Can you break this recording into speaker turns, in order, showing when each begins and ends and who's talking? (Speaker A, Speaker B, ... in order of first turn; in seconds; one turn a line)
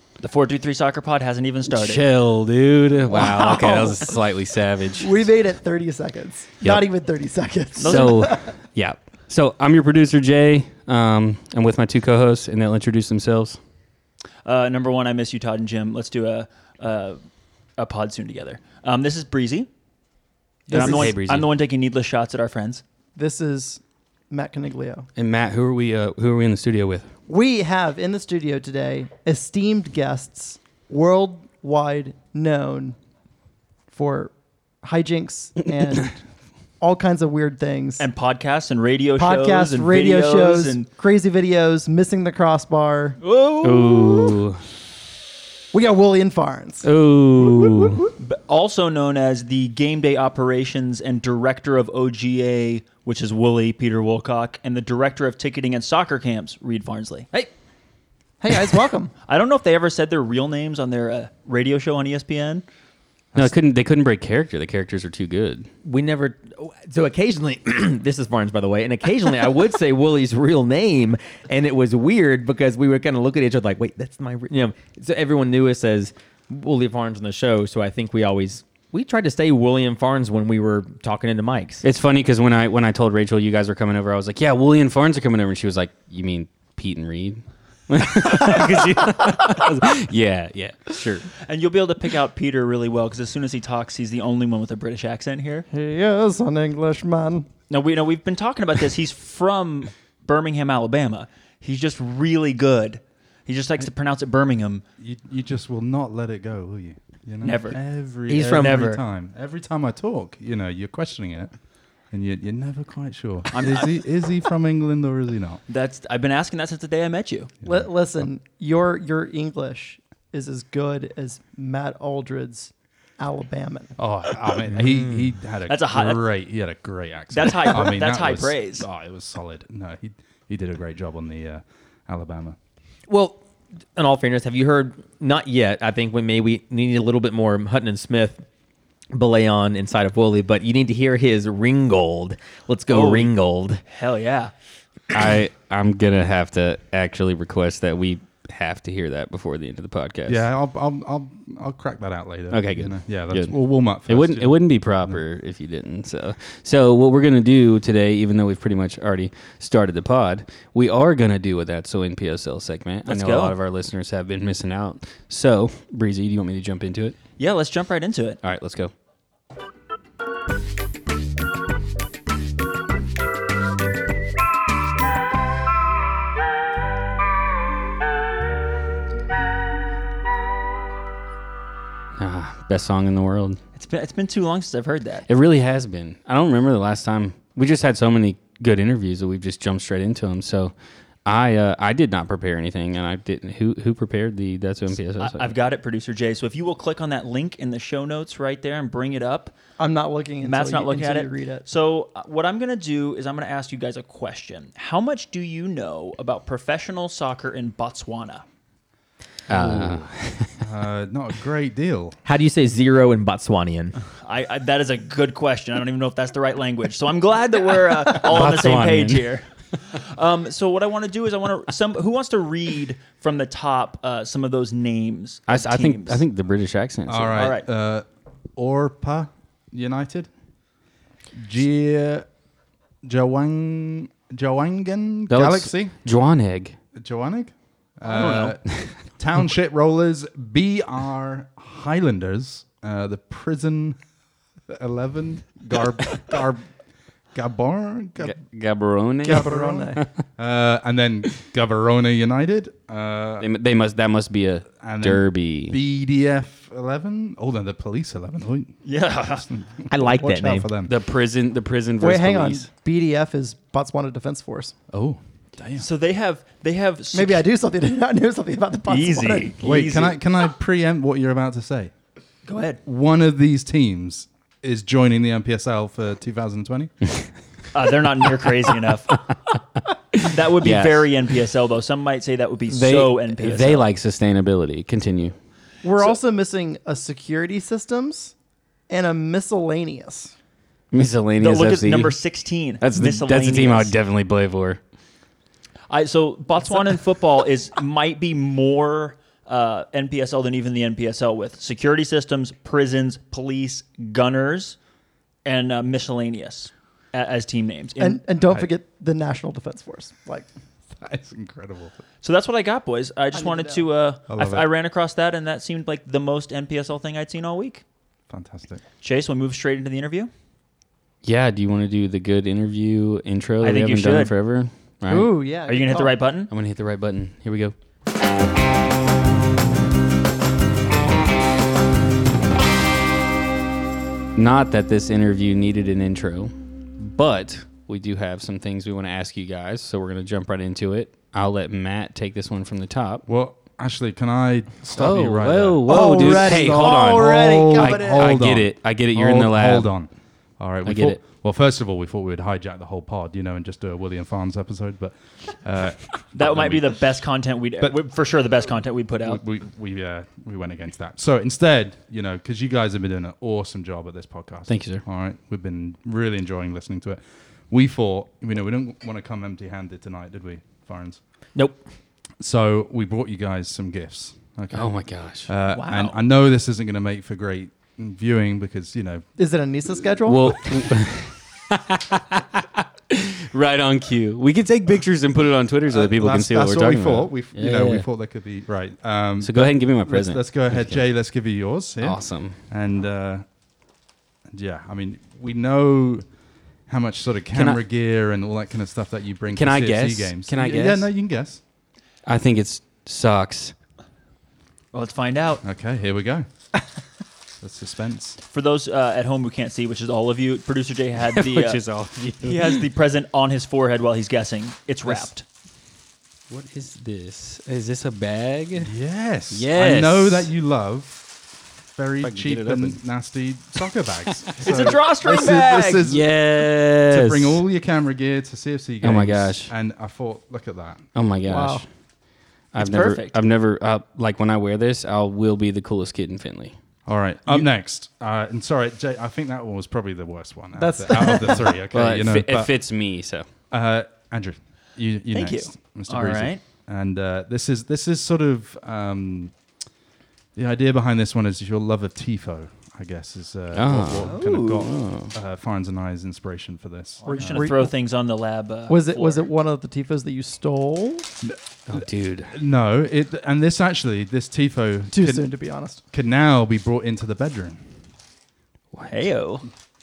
Speaker A: 0.2-2.1
Speaker B: 1.7-5.1
Speaker C: 3.1-4.2
Speaker C: 5.0-8.5
Speaker B: 6.6-6.9
Speaker A: 7.8-8.3
Speaker B: 7.8-13.6
Speaker A: 14.4-17.2
Speaker A: 17.8-19.7
Speaker B: 20.7-21.5
Speaker A: 20.7-22.8
Speaker C: 20.7-21.1
Speaker C: 23.2-25.1
Speaker B: 25.2-27.1
Speaker C: 27.3-33.0
Speaker C: 33.9-36.2
Speaker C: 36.8-38.1
Speaker A: 38.0-40.8
Speaker C: 39.2-43.2
Speaker A: 43.2-44.4
Speaker B: 43.6-44.6
Speaker C: 45.7-48.1
Speaker B: 46.8-48.1
Speaker A: 48.2-57.3
Speaker C: 58.4-59.1
Speaker A: 59.3-62.6
Speaker B: 63.4-65.7
Speaker D: 65.8-81.8
Speaker B: 81.8-91.2
Speaker A: 91.4-95.7
Speaker C: 95.7-97.5
Speaker A: 97.7-104.8
Speaker E: 105.0-111.5
Speaker A: 107.4-107.8
Speaker D: 108.3-109.0
Speaker A: 108.5-109.0
Speaker E: 112.1-115.6
Speaker A: 113.5-114.0
Speaker A: 115.7-117.5
Speaker C: 117.7-124.0
Speaker E: 124.0-132.6
Speaker B: 124.8-125.1
Speaker A: 125.7-126.3
Speaker A: 127.3-128.9
Speaker D: 133.1-133.4
Speaker D: 133.9-138.4
Speaker D: 139.1-143.8
Speaker A: 142.9-143.3
Speaker A: 143.9-144.5
Speaker B: 145.1-150.4
Speaker E: 150.3-155.2
Speaker B: 152.5-153.6
Speaker B: 154.1-167.2
Speaker A: 163.1-163.6
Speaker A: 167.4-168.4
Speaker B: 168.4-168.9
Speaker B: 182.2-183.6
Speaker A: 183.8-185.3
Speaker B: 185.3-190.7
Speaker B: 191.2-195.5
Speaker A: 195.2-199.5
Speaker C: 199.8-201.7
Speaker A: 200.4-208.4
Speaker B: 209.5-210.6
Speaker E: 209.5-212.2
Speaker D: 212.2-214.0
Speaker A: 214.2-226.2
Speaker B: 218.1-219.3
Speaker B: 225.5-227.4
Speaker E: 227.1-228.1
Speaker A: 227.4-227.7
Speaker E: 228.6-230.3
Speaker E: 231.4-232.3
Speaker E: 233.0-236.0
Speaker B: 235.3-236.8
Speaker E: 237.0-244.0
Speaker A: 238.1-238.5
Speaker B: 238.7-239.0
Speaker E: 244.7-246.7
Speaker E: 247.3-248.4
Speaker B: 248.2-250.2
Speaker C: 249.2-250.0
Speaker E: 249.3-253.5
Speaker B: 253.4-255.8
Speaker E: 254.8-258.8
Speaker A: 258.8-259.5
Speaker E: 259.4-261.0
Speaker D: 259.9-260.7
Speaker B: 260.9-262.7
Speaker C: 262.0-264.8
Speaker E: 264.9-265.9
Speaker A: 265.8-267.5
Speaker C: 267.1-269.6
Speaker A: 268.9-270.2
Speaker E: 269.6-271.9
Speaker A: 272.5-272.8
Speaker E: 272.9-277.1
Speaker A: 277.7-279.2
Speaker B: 280.1-281.1
Speaker A: 280.2-283.9
Speaker B: 282.7-285.4
Speaker C: 285.8-288.3
Speaker C: 288.9-290.3
Speaker B: 290.9-292.2
Speaker A: 291.4-293.9
Speaker B: 292.8-294.8
Speaker A: 295.9-304.8
Speaker A: 305.4-308.2
Speaker C: 308.0-310.5
Speaker E: 311.0-311.9
Speaker A: 312.2-317.8
Speaker C: 313.3-313.9
Speaker E: 314.3-314.7
Speaker E: 318.3-318.8
Speaker A: 319.0-320.3
Speaker B: 321.2-325.3
Speaker A: 323.6-324.3
Speaker C: 325.1-326.2
Speaker A: 325.7-326.5
Speaker B: 326.5-327.8
Speaker B: 334.4-343.2
Speaker E: 343.3-357.0
Speaker B: 344.9-349.9
Speaker C: 345.9-348.4
Speaker B: 350.9-351.2
Speaker A: 356.4-359.4
Speaker E: 359.2-371.2
Speaker B: 364.7-365.0
Speaker D: 371.6-371.8
Speaker E: 372.4-379.3
Speaker B: 374.7-375.5
Speaker A: 375.7-376.2
Speaker C: 379.4-380.6
Speaker B: 380.3-388.1
Speaker E: 385.9-393.4
Speaker B: 389.4-391.0
Speaker B: 392.0-392.6
Speaker E: 394.5-396.2
Speaker E: 396.9-401.6
Speaker B: 397.5-397.8
Speaker B: 399.5-401.1
Speaker B: 402.3-403.8
Speaker A: 404.9-405.6
Speaker E: 405.6-406.5
Speaker E: 407.6-408.4
Speaker A: 408.4-411.8
Speaker B: 411.3-412.9
Speaker A: 412.4-415.4
Speaker B: 416.5-418.9
Speaker E: 418.8-421.4
Speaker B: 419.5-420.5
Speaker E: 421.9-431.1
Speaker B: 422.2-423.0
Speaker B: 424.3-424.8
Speaker A: 424.6-426.1
Speaker B: 426.1-427.6
Speaker B: 429.0-429.7
Speaker B: 431.1-431.9
Speaker C: 431.5-431.9
Speaker B: 432.7-436.8
Speaker A: 432.8-433.4
Speaker E: 437.1-442.8
Speaker C: 440.8-441.8
Speaker B: 441.9-443.5
Speaker E: 443.7-449.5
Speaker A: 445.3-446.6
Speaker E: 450.6-457.7
Speaker B: 453.7-455.3
Speaker A: 454.2-454.8
Speaker A: 457.2-459.5
Speaker C: 457.2-457.9
Speaker C: 458.9-461.3
Speaker E: 461.4-465.5
Speaker B: 461.9-462.5
Speaker C: 465.1-466.0
Speaker E: 466.1-467.9
Speaker A: 469.1-469.7